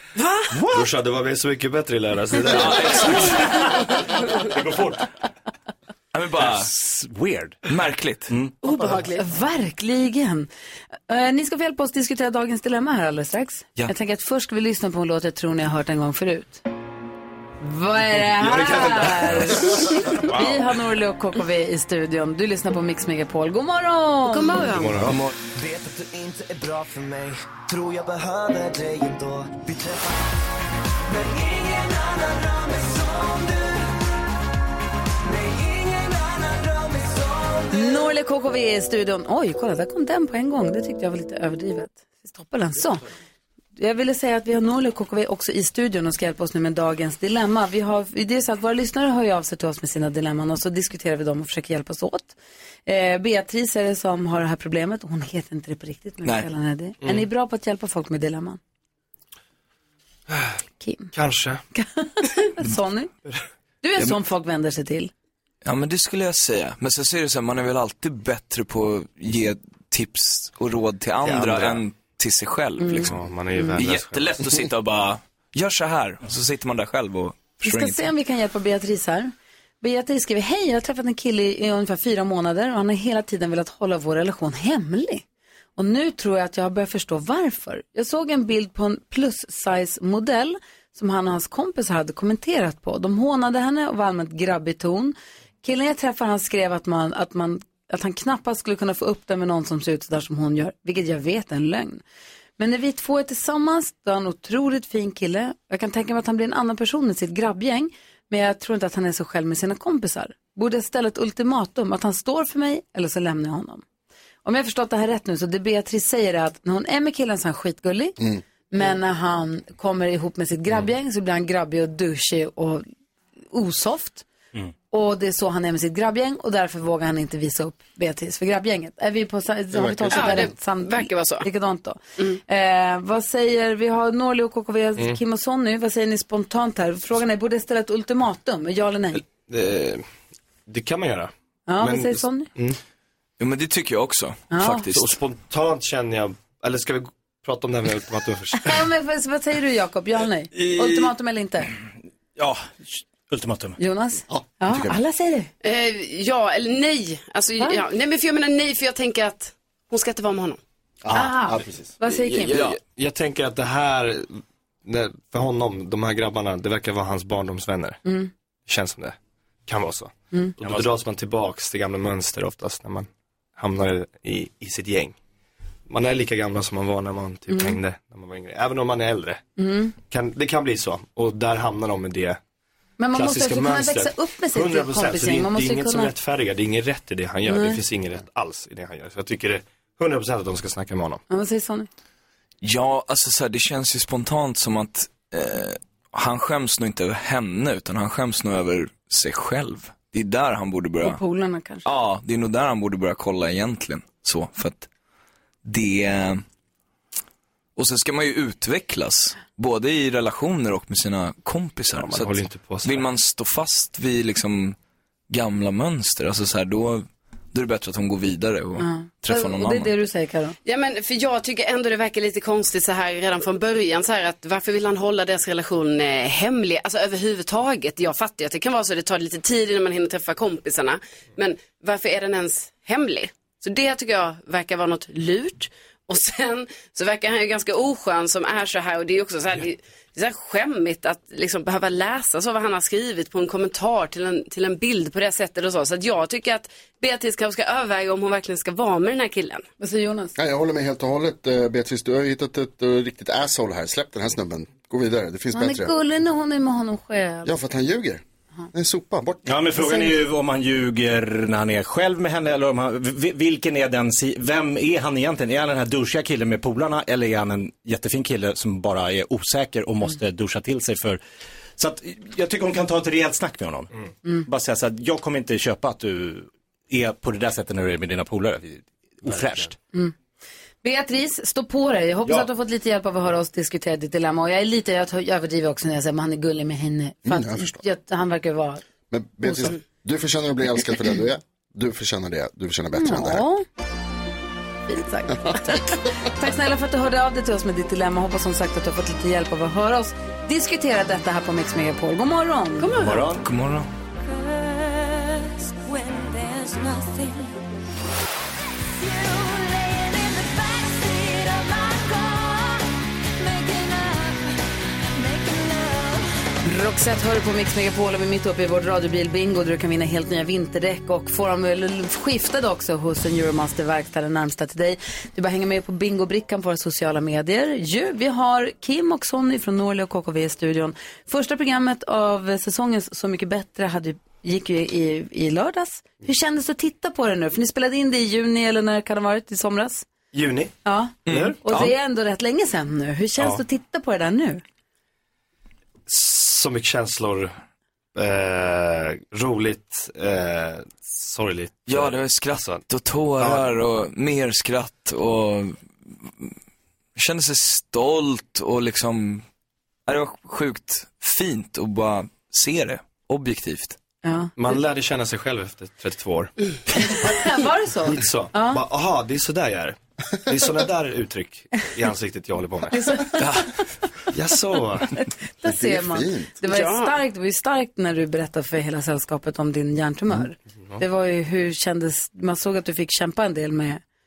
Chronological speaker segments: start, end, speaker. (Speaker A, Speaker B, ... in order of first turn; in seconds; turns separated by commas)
Speaker A: 0.1-0.5, Speaker B: 0.5-0.8, Speaker C: 0.7-3.4, Speaker D: 2.5-3.4, Speaker B: 3.2-5.0, Speaker D: 6.1-6.7, Speaker B: 6.3-7.6, Speaker D: 7.7-8.3, Speaker B: 8.3-8.8, Speaker A: 8.6-9.2, Speaker E: 9.2-10.5, Speaker E: 11.1-16.6, Speaker E: 17.6-24.7, Speaker C: 18.4-20.4, Speaker A: 24.2-25.1, Speaker C: 24.7-30.0, Speaker F: 31.1-33.8, Speaker F: 35.3-37.7, Speaker E: 37.7-43.0, Speaker E: 43.8-52.3, Speaker E: 52.9-58.6, Speaker C: 57.0-57.3, Speaker E: 60.8-61.1, Speaker C: 61.1-61.6, Speaker E: 61.7-63.1, Speaker E: 63.8-65.1, Speaker D: 65.6-73.2, Speaker C: 71.2-71.8, Speaker E: 72.8-73.1, Speaker C: 73.0-74.6, Speaker D: 73.7-78.1, Speaker E: 77.6-85.2, Speaker E: 85.8-102.0, Speaker E: 102.6-113.8, Speaker E: 114.4-118.2, Speaker E: 118.7-122.8, Speaker E: 123.5-124.2, Speaker E: 124.9-139.2, Speaker G: 129.7-130.5, Speaker A: 130.1-131.5, Speaker C: 139.1-140.0, Speaker C: 140.7-142.8, Speaker E: 141.7-142.5, Speaker D: 143.4-145.2, Speaker E: 144.5-144.9, Speaker C: 144.9-148.9, Speaker E: 148.6-151.7, Speaker D: 150.7-151.0, Speaker B: 152.4-153.8, Speaker E: 153.8-155.5, Speaker G: 154.3-154.9, Speaker A: 155.6-160.6, Speaker G: 161.0-161.9, Speaker E: 161.1-162.6, Speaker C: 162.5-168.0, Speaker D: 162.5-162.8, Speaker E: 168.0-168.3, Speaker C: 168.7-169.2, Speaker C: 169.7-175.2, Speaker B: 170.6-170.9, Speaker C: 175.9-179.4, Speaker E: 177.5-177.8, Speaker E: 179.6-179.9, Speaker C: 180.0-182.4, Speaker E: 183.0-186.1, Speaker C: 183.1-191.2, Speaker E: 187.5-187.8, Speaker E: 191.3-191.9, Speaker D: 192.6-201.2, Speaker E: 201.0-201.8, Speaker D: 201.8-204.9, Speaker D: 205.6-206.4, Speaker D: 207.8-214.8, Speaker C: 211.9-213.1, Speaker D: 215.3-219.9, Speaker E: 218.8-220.6, Speaker A: 220.6-249.6, Speaker E: 249.8-250.3, Speaker G: 250.4-255.9, Speaker E: 255.5-257.5, Speaker G: 257.4-258.2, Speaker G: 258.7-259.6, Speaker B: 259.4-271.2, Speaker E: 259.8-260.1, Speaker B: 271.8-273.9, Speaker B: 274.4-279.8, Speaker C: 279.3-279.7, Speaker E: 280.8-288.8, Speaker G: 287.2-287.8, Speaker G: 289.1-293.4, Speaker E: 289.4-289.7, Speaker E: 292.9-293.6, Speaker E: 294.9-302.9, Speaker A: 302.8-303.2, Speaker B: 303.0-303.4, Speaker D: 303.3-303.9, Speaker H: 304.2-307.6, Speaker H: 309.0-316.3, Speaker E: 316.6-340.1, Speaker C: 340.3-341.9, Speaker E: 340.8-344.6, Speaker D: 341.2-341.9, Speaker C: 343.4-343.6, Speaker C: 346.1-347.6, Speaker C: 348.1-353.7, Speaker D: 351.9-355.8, Speaker D: 357.1-359.4, Speaker D: 360.1-364.0, Speaker E: 364.2-364.5, Speaker C: 364.6-367.3, Speaker E: 367.0-368.8, Speaker C: 368.0-373.3, Speaker E: 372.9-373.8, Speaker D: 373.4-373.7, Speaker C: 374.3-375.1, Speaker E: 375.2-384.0, Speaker G: 375.6-376.5, Speaker A: 376.6-377.1